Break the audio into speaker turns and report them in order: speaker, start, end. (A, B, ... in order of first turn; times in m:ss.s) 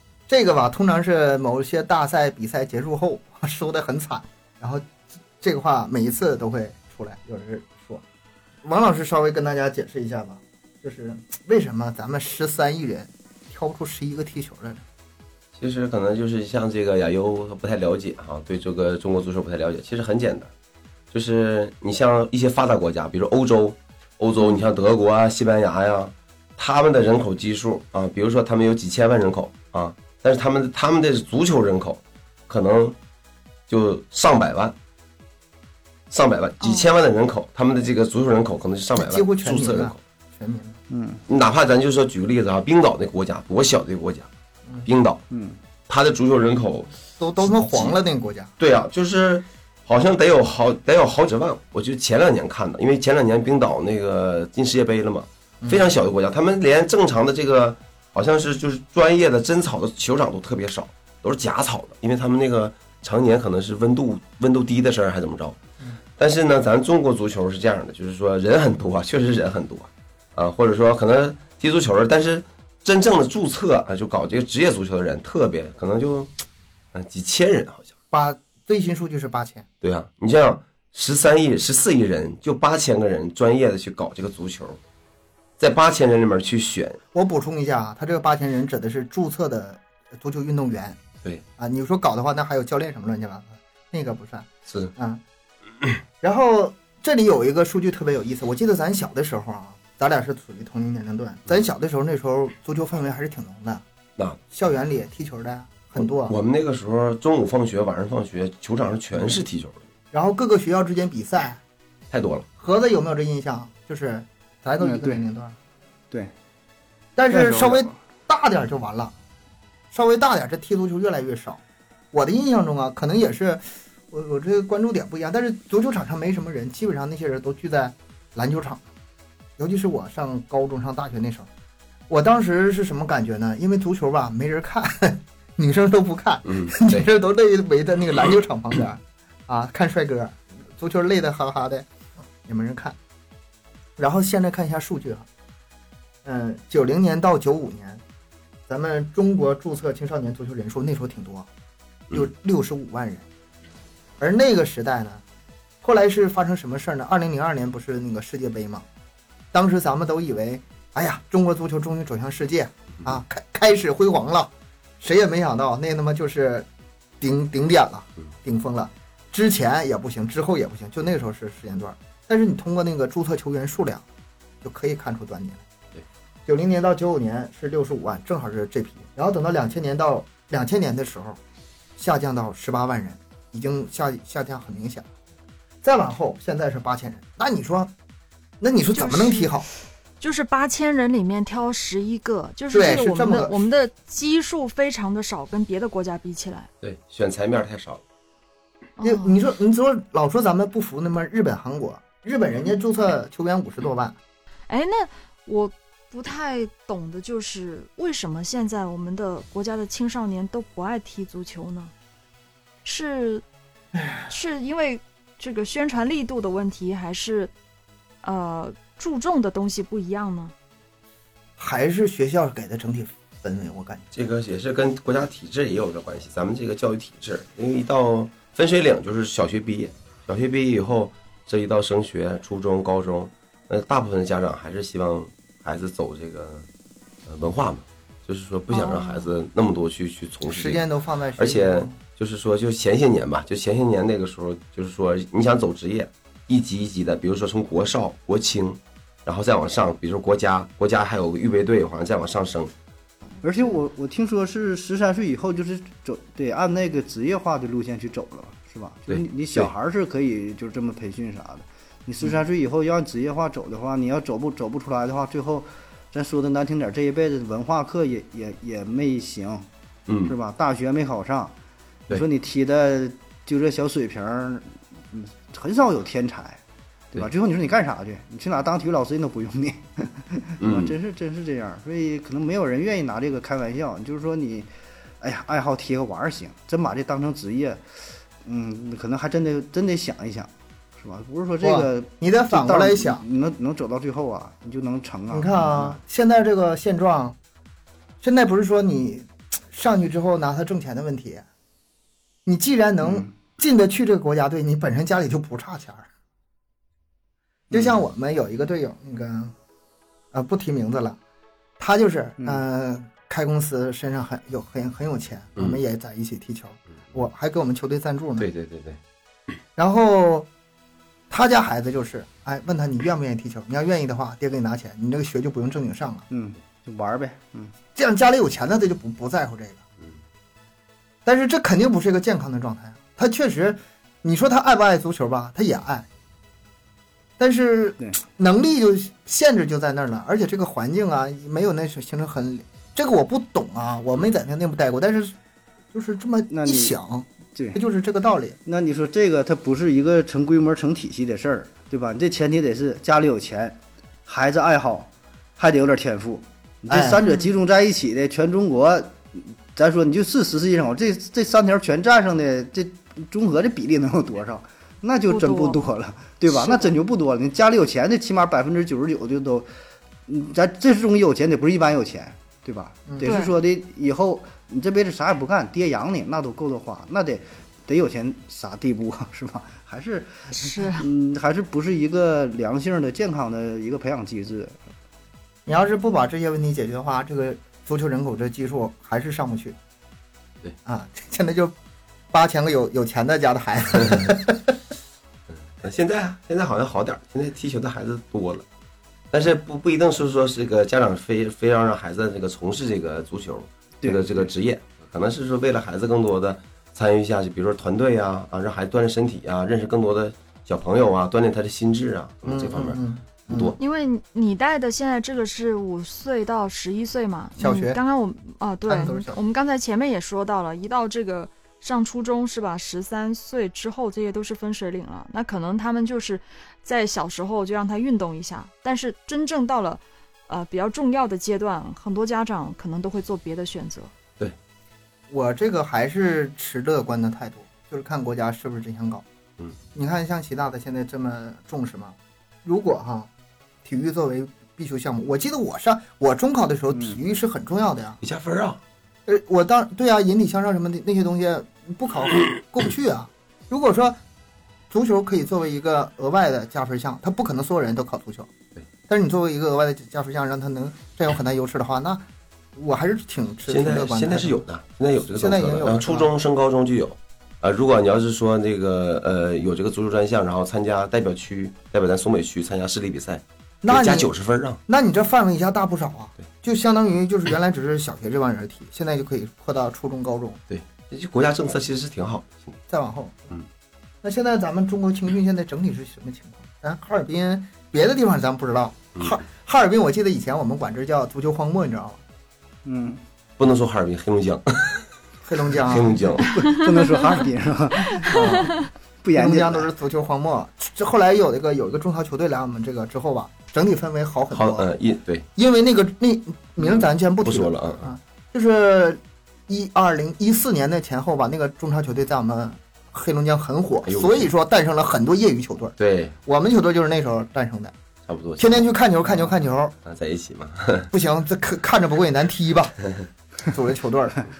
0:00.3-0:04.8 A
0:05.4-0:08.0 A
0:08.6-0:14.8 A
0:15.6-0:20.5 B
0:21.1-0:33.0 B
0:33.7-0:34.7 B
0:36.1-0:40.0 B
0:36.6-0:36.9 C
0:39.0-0:40.8 A
0:40.9-0:41.2 D
0:41.3-0:44.3 B
0:44.8-0:45.2 B
0:45.3-0:45.6 D
0:45.9-0:46.9 B
0:47.2-0:48.5 A
0:47.5-0:48.0 B
0:48.6-1:05.6 B
0:55.6-0:55.9 A
1:06.2-1:16.3 B
1:16.9-1:17.9 B
1:18.1-1:19.6 A
1:19.8-1:24.8 B
1:25.6-1:27.0 B
1:27.1-1:31.0 A
1:31.6-1:35.2 A
1:36.2-1:43.8 A
1:44.5-1:46.4 A
1:46.3-1:49.8 B
1:50.1-1:51.6 A
1:52.1-1:52.4 B
1:52.6-1:55.6 A
1:54.8-1:55.2 D
1:57.2-1:59.1 A
1:57.3-1:57.9 D
1:59.9-2:01.6 A
2:02.1-2:08.8 A
2:09.6-2:11.5 A
2:12.1-2:21.9 A
2:16.5-2:17.0 B
2:22.4-2:23.0 A
2:24.0-2:25.2 A
2:26.2-2:28.0 A
2:28.7-2:31.5 A
2:32.1-2:33.2 A
2:34.2-2:35.2 A
2:35.8-2:38.8 A
2:39.5-2:46.7 A
2:47.2-2:54.0 A
2:54.6-2:55.6 A
2:56.4-3:01.4 A
3:02.0-3:05.1 A
3:05.8-3:07.9 A
3:08.6-3:09.7 A
3:08.9-3:09.5 C
3:10.2-3:16.7 C
3:12.7-3:13.6 A
3:16.8-3:18.0 B
3:19.0-3:19.4 C
3:19.0-3:24.2 A
3:24.7-3:31.9 C
3:32.8-3:33.4 C
3:33.9-3:34.3 A
3:34.3-3:37.5 C
3:38.2-3:40.5 C
3:41.6-3:44.0 A
3:44.1-3:56.6 B
3:57.3-4:00.8 B
3:58.7-3:59.3 C
4:00.4-4:01.9 A
4:01.4-4:12.7 B
4:13.4-4:29.7 D
4:19.1-4:19.7 B
4:30.1-4:30.3 B
4:30.3-4:31.5 D
4:32.1-4:36.6 D
4:37.1-4:44.7 D
4:40.6-4:41.0 B
4:45.2-4:56.0 D
4:51.6-4:53.2 A
4:55.3-4:57.4 A
4:58.2-5:01.4 A
5:02.4-5:06.1 A
5:03.0-5:03.3 D
5:07.7-5:08.0 D
5:07.7-5:09.5 A
5:10.3-5:11.2 A
5:11.8-5:18.5 A
5:18.4-5:19.0 B
5:19.8-5:20.5 A
5:21.3-5:26.2 A
5:26.3-5:27.7 D
5:27.9-5:29.8 A
5:31.2-5:36.1 A
5:37.4-5:45.4 A
5:45.9-5:48.6 A
5:46.5-5:46.9 D
5:47.5-5:47.8 D
5:48.6-6:09.7 D
5:56.9-5:57.2 A
5:57.2-5:57.5 C
6:05.3-6:05.8 C
6:06.5-6:06.9 C
6:10.3-6:24.8 D
6:13.1-6:13.4 A
6:13.2-6:13.6 C
6:20.5-6:21.0 C
6:25.6-6:29.8 A
6:30.8-6:31.7 A
6:32.3-6:34.8 A
6:35.5-6:38.6 B
6:39.3-6:53.0 B
6:44.0-6:44.5 D
6:52.4-6:53.8 A
6:53.5-6:53.8 B
6:53.8-7:14.1 C
6:57.6-6:58.0 A
6:58.8-6:59.4 A
7:15.3-7:19.2 A
7:19.9-7:23.3 A
7:23.8-7:28.2 A
7:26.9-7:27.2 D
7:28.2-7:28.8 B
7:29.2-7:34.2 A
7:34.9-7:38.5 A
7:39.1-7:42.2 A
7:42.7-7:44.6 A
7:43.7-7:54.8 B
7:45.3-7:46.3 A
7:53.8-7:54.3 A
7:54.9-8:00.6 A
8:00.7-8:02.8 B
8:02.9-8:03.6 A
8:04.2-8:12.2 A
8:09.1-8:09.4 B
8:12.8-8:13.2 D
8:13.6-8:15.0 B
8:15.4-8:16.3 A
8:15.8-8:16.7 B
8:16.4-8:19.9 D
8:18.2-8:18.5 C
8:18.3-8:18.7 A
8:19.3-8:24.9 A
8:24.5-8:25.4 B
8:25.6-8:37.9 A
8:27.4-8:28.1 B
8:34.0-8:34.5 B
8:36.0-8:36.3 B
8:38.3-8:38.9 B
8:38.6-8:40.0 A
8:40.0-8:41.1 B
8:41.1-8:43.0 A
8:43.6-8:44.5 A